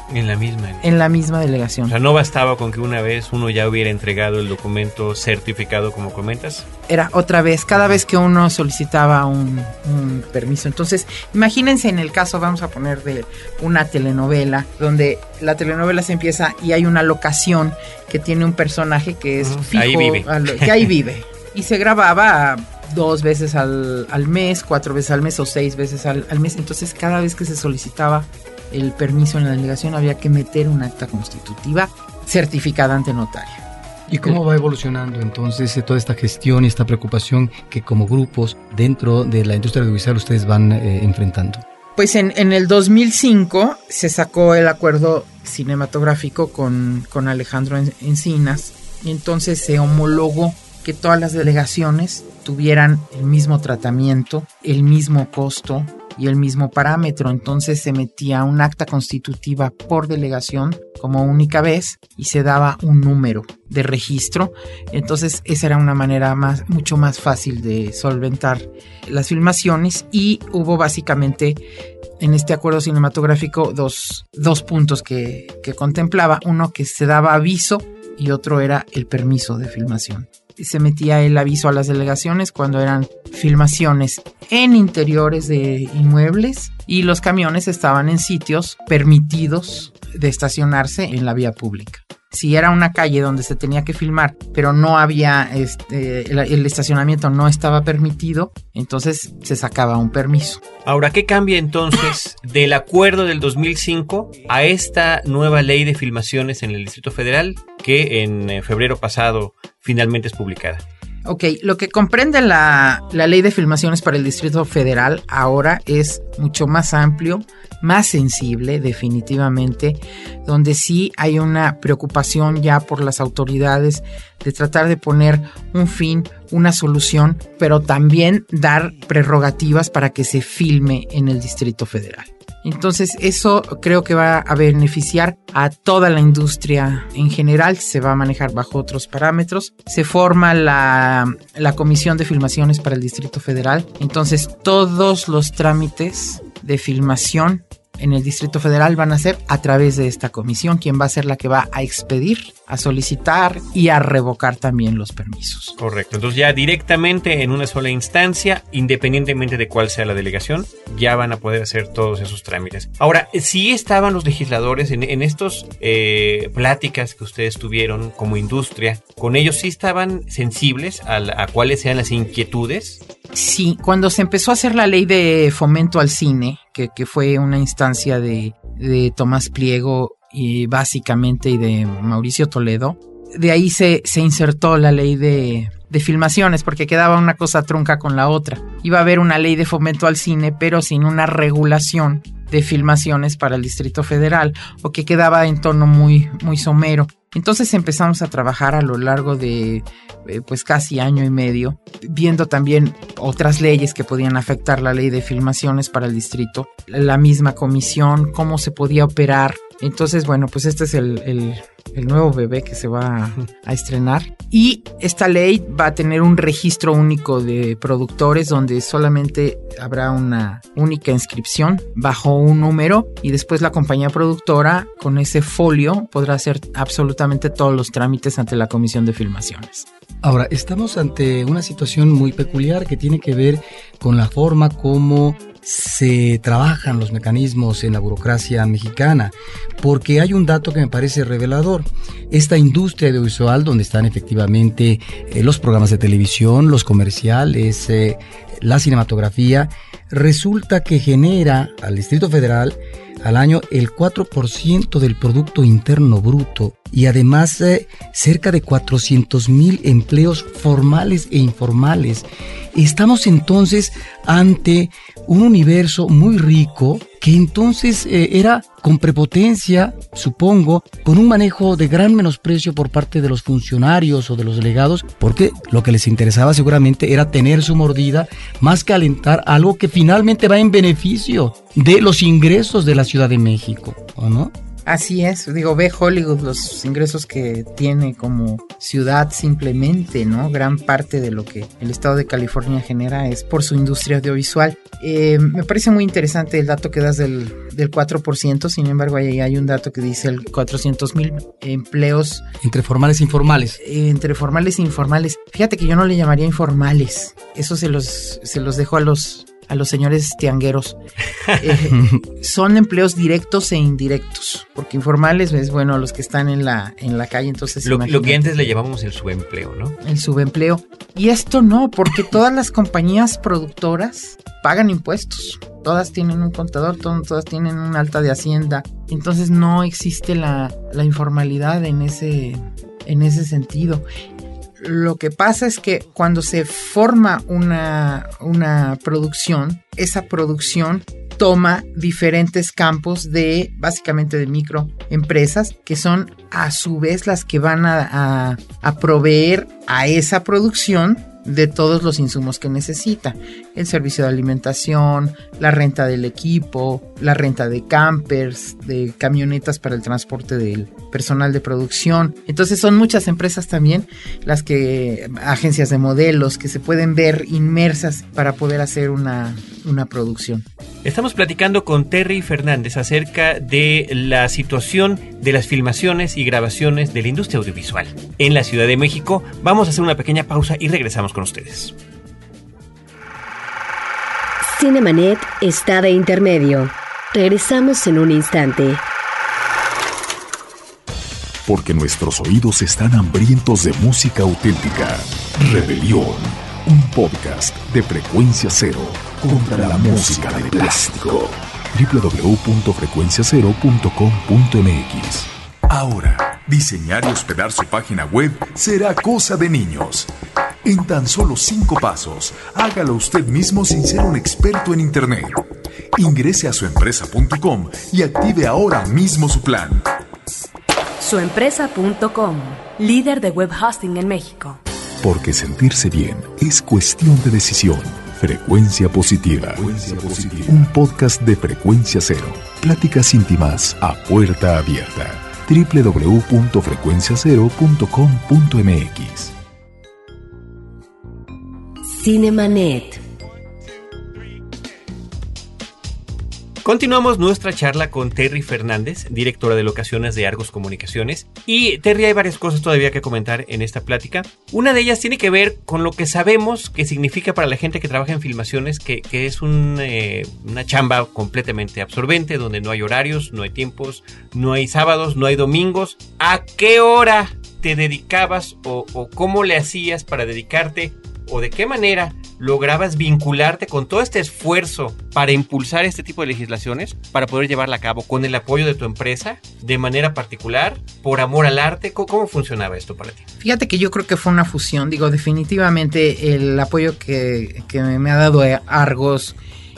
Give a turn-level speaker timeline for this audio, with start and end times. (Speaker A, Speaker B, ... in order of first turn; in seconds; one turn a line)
Speaker A: 0.1-0.9
Speaker B: 0.8-1.9
Speaker A: 1.9-6.7
Speaker B: 6.9-33.6
Speaker A: 7.7-8.0
Speaker A: 19.4-20.9
Speaker C: 34.1-41.6
Speaker B: 42.0-71.6
Speaker B: 72.2-100.6
Speaker A: 100.8-110.8
Speaker B: 111.2-155.8
Speaker A: 155.8-173.0
Speaker B: 173.3-229.8
Speaker C: 230.2-284.5
Speaker B: 284.9-302.4
Speaker C: 302.6-303.8
Speaker B: 303.8-311.0
Speaker B: 311.6-318.5
Speaker C: 311.9-312.2
Speaker A: 317.8-320.0
Speaker B: 320.0-334.0
Speaker B: 334.8-370.6
Speaker A: 371.0-381.9
Speaker D: 384.6-389.0
Speaker E: 391.6-410.3
Speaker E: 410.8-420.1
Speaker F: 421.2-424.8
Speaker E: 425.2-439.5
Speaker D: 442.0-443.2
Speaker A: 446.8-483.4
Speaker B: 483.6-489.6